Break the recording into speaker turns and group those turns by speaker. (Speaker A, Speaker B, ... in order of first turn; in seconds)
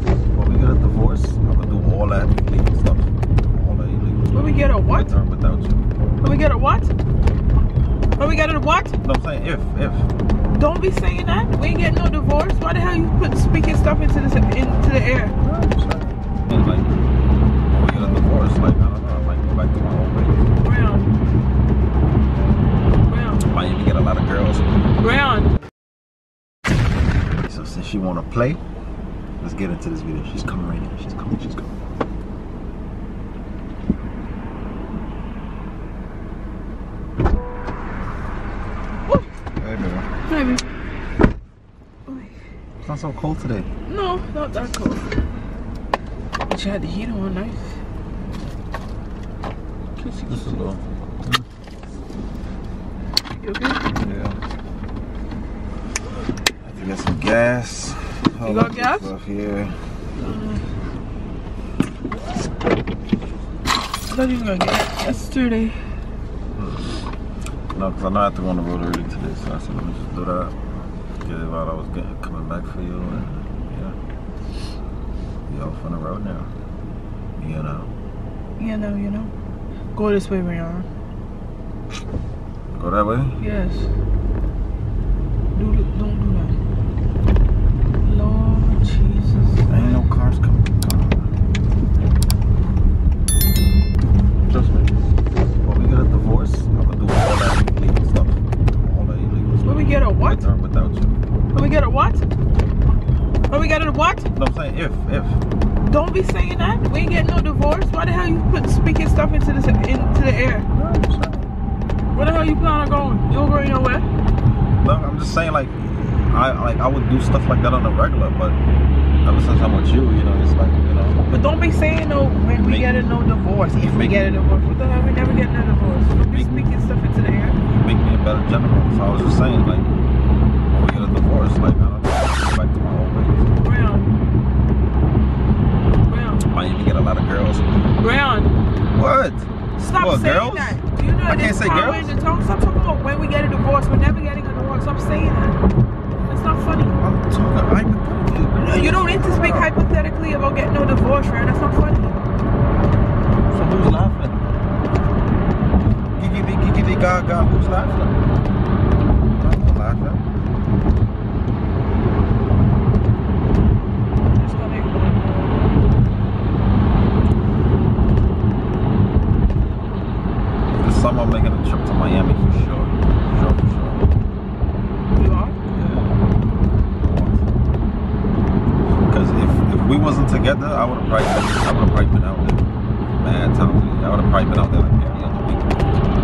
Speaker A: 0.3-5.8, 9.0-10.1, 15.4-16.9, 17.7-20.4, 23.4-24.9, 27.4-28.6, 29.4-31.7, 39.6-40.1, 42.8-43.7, 50.3-51.4, 53.9-54.4, 56.6-59.7, 66.5-66.8, 67.7-70.5, 71.2-74.0, 75.5-76.5, 77.4-77.9, 82.7-83.4, 89.7-91.2, 94.5-94.9, 95.6-101.2, 104.3-105.4, 110.7-111.5, 114.8-118.6, 119.2-121.2, 122.6-122.9, 126.3-126.7, 127.7-129.9, 130.7-133.5, 136.4-138.0, 138.9-142.2, 146.8-149.7, 153.5-154.4, 156.1-158.1, 159.4-160.2, 170.8-174.0, 175.7-176.1, 177.0-177.7, 178.9-182.7, 183.2-185.8
Speaker B: 4.3-5.1, 6.2-6.9, 8.2-9.0, 10.5-15.4, 20.6-21.1, 23.1-23.5, 25.0-25.5, 40.2-40.7, 43.9-45.1, 46.5-47.7, 50.0-50.6, 53.4-53.8, 58.4-59.1, 60.2-60.6, 64.1-65.8, 78.6-79.3, 79.9-80.8, 83.4-83.9, 85.5-86.6, 88.0-90.0, 99.6-100.4, 101.5-102.2, 103.5-104.3, 105.8-110.7, 112.1-114.0, 121.3-127.6, 133.6-134.1, 136.1-136.4, 138.0-138.5, 139.8-145.6, 146.2-146.9, 148.6-152.2, 164.3-165.7, 175.1-175.6